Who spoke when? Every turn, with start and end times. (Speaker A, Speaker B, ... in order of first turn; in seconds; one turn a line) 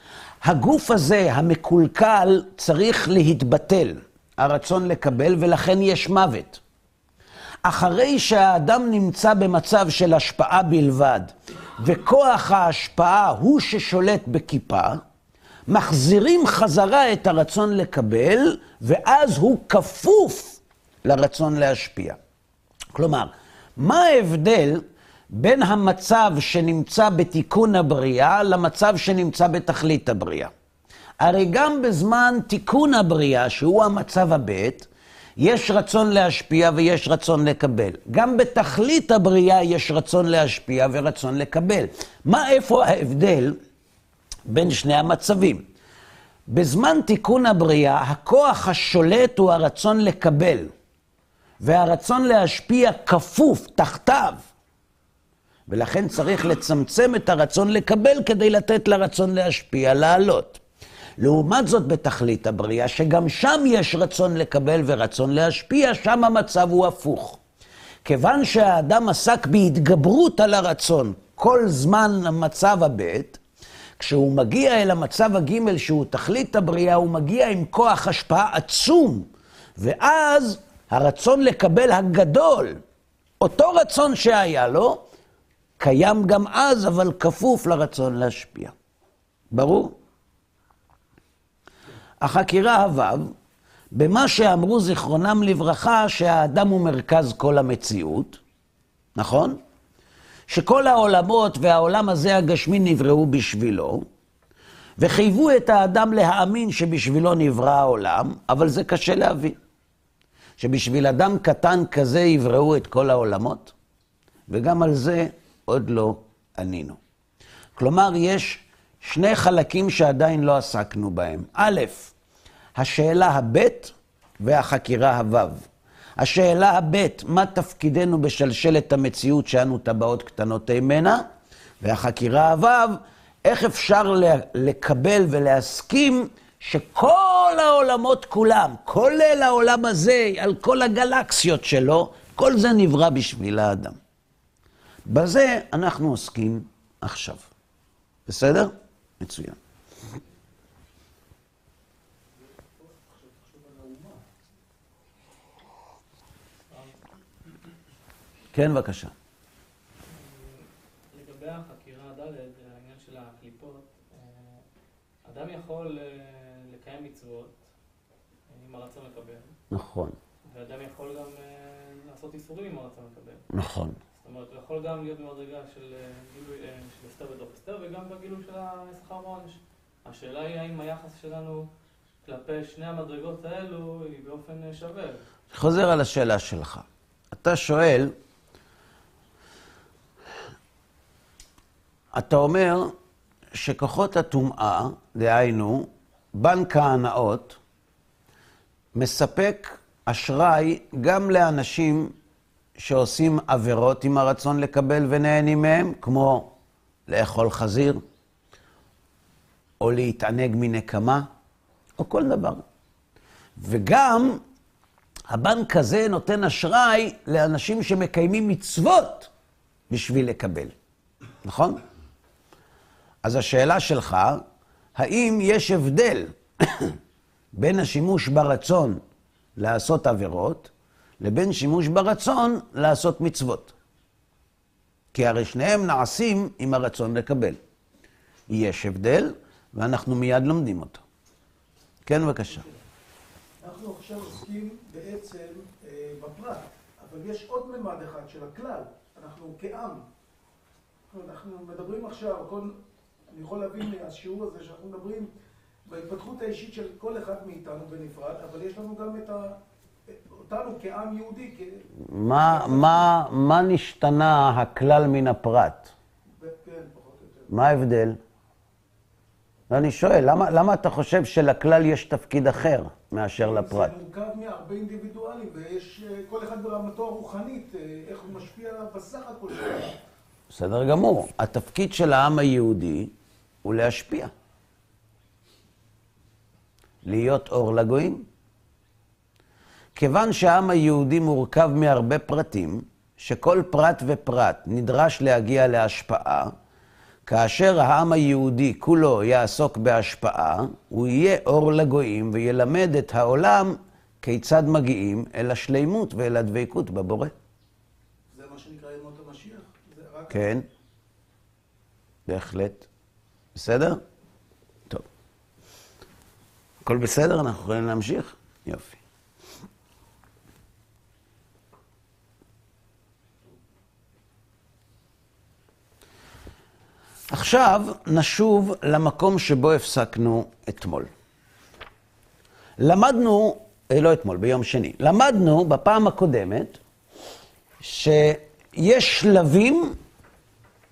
Speaker A: 0.4-6.6
Speaker A: 7.7-15.0
Speaker A: 15.7-22.2
Speaker A: 22.9-30.5
Speaker A: 31.2-43.6
Speaker A: 44.5-45.7
Speaker A: 46.5-50.7
Speaker A: 51.6-54.4
Speaker A: 55.7-60.6
Speaker A: 61.2-67.4
Speaker A: 68.0-73.4
Speaker A: 74.0-82.8
Speaker A: 83.4-85.0
Speaker A: 85.8-88.7
Speaker A: 89.5-90.0
Speaker A: 92.2-93.3
Speaker A: 93.9-98.4
Speaker A: 99.2-99.6
Speaker A: 100.5-104.0
Speaker A: 105.0-109.6
Speaker A: 110.6-113.7
Speaker A: 114.5-117.0
Speaker A: 117.8-122.1
Speaker A: 122.8-125.7
Speaker A: 126.2-131.2
Speaker A: 131.8-144.0
Speaker A: 145.1-147.5
Speaker A: 148.3-149.6
Speaker B: 152.4-154.2
Speaker C: 156.7-157.0
Speaker A: 158.5-159.1
Speaker C: 160.1-164.6
Speaker C: 165.2-167.6
Speaker C: 168.5-169.6
Speaker A: 169.7-170.2
Speaker C: 170.5-173.5
Speaker A: 173.5-174.0
Speaker C: 174.2-181.7
Speaker C: 182.2-185.2
Speaker A: 185.5-188.1
Speaker A: 192.2-192.9
Speaker A: 193.6-197.6
Speaker A: 199.0-202.1
Speaker A: 202.8-206.5
Speaker A: 207.1-208.0
Speaker A: 209.8-211.3
Speaker A: 212.0-212.6
Speaker A: 213.6-214.4
Speaker A: 215.3-219.3
Speaker A: 219.9-220.7
Speaker A: 221.4-221.8
Speaker A: 223.2-224.4
Speaker A: 225.0-227.0
Speaker A: 227.6-229.0
Speaker A: 229.6-233.7
Speaker A: 235.1-237.6
Speaker A: 238.5-241.0
Speaker A: 242.1-242.7
Speaker B: 243.6-250.1
Speaker B: 251.1-252.8
Speaker B: 253.3-255.3
Speaker B: 255.9-261.9
Speaker A: 262.0-265.9
Speaker B: 262.4-263.1
Speaker B: 266.4-267.5
Speaker A: 267.5-268.2
Speaker A: 269.7-273.9
Speaker B: 273.4-280.0
Speaker A: 280.5-283.1
Speaker A: 283.6-284.3
Speaker A: 287.1-288.3
Speaker A: 289.9-296.5
Speaker A: 297.3-307.3
Speaker B: 308.3-310.4
Speaker A: 310.3-310.7
Speaker A: 312.3-312.9
Speaker A: 313.6-314.0
Speaker A: 316.9-319.0
Speaker A: 327.3-331.1
Speaker A: 332.8-336.8
Speaker A: 337.8-340.0